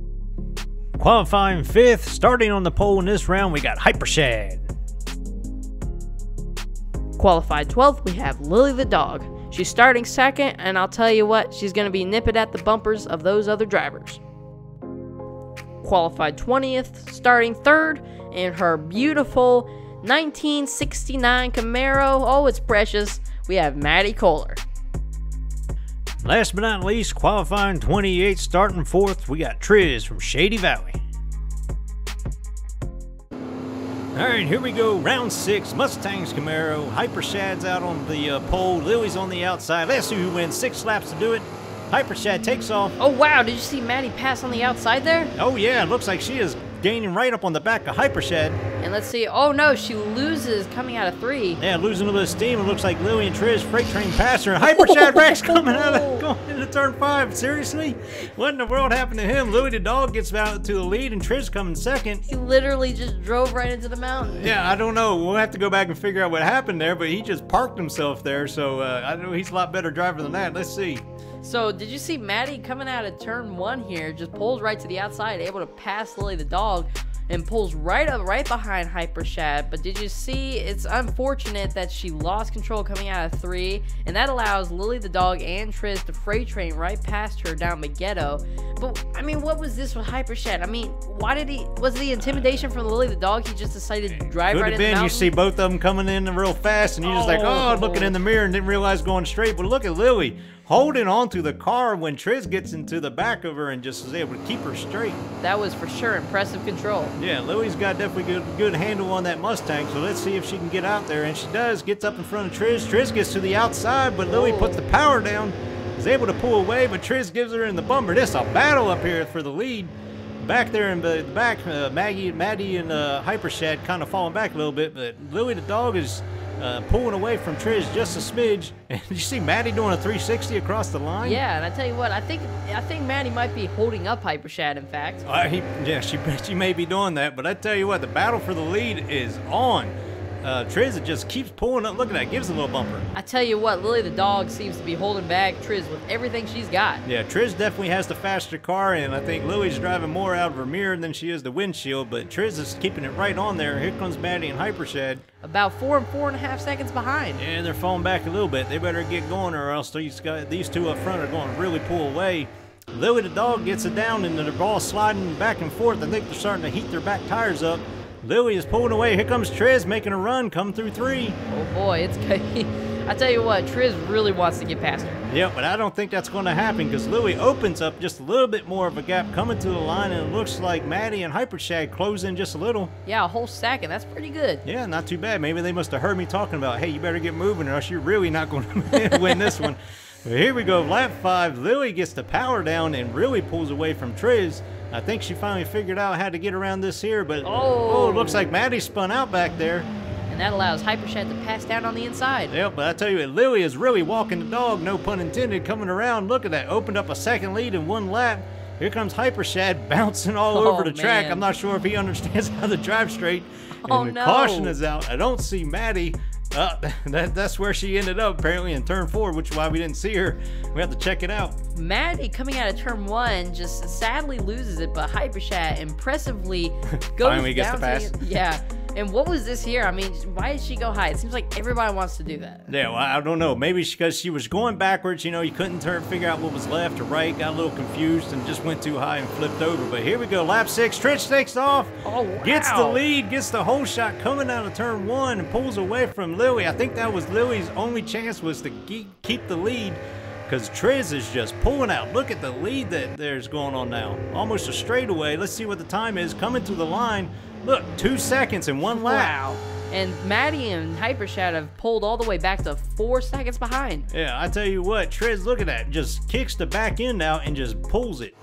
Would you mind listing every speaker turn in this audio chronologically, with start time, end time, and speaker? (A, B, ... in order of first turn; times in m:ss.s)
0:01.0-0:04.7 A
0:07.2-0:14.2 B
0:15.8-0:24.6 B
0:26.2-0:31.0 A
0:34.1-0:43.0 A
0:43.0-0:45.3 B
0:45.4-0:48.6 A
0:48.8-0:51.6 B
0:51.6-1:02.2 A
0:54.6-0:56.3 B
1:02.3-1:04.6 B
1:04.4-1:11.0 A
1:11.4-1:35.3 B
1:34.5-1:45.2 A
1:37.0-1:38.1 B
1:45.4-1:47.2 B
1:47.2-2:11.4 A
1:54.2-1:54.8 B
2:11.2-2:15.2 B
2:15.2-2:23.1 A
2:23.1-2:27.0 B
2:27.0-2:35.2 A
2:35.4-2:37.4 B
2:37.4-2:51.4 A
2:51.5-2:55.2 B
2:55.3-3:02.9 A
3:03.0-3:04.6 B
3:04.6-3:19.9 A
3:08.9-3:09.6 B
3:17.4-3:18.5 B
3:20.3-3:22.5 B
3:22.5-3:41.6 A
3:30.5-3:31.4 B
3:33.8-3:34.8 B
3:41.8-3:52.7 B
3:47.1-3:48.2 A
3:52.7-4:19.4 A
4:02.0-4:03.0 B
4:18.9-4:24.1 B
4:24.1-4:28.4 A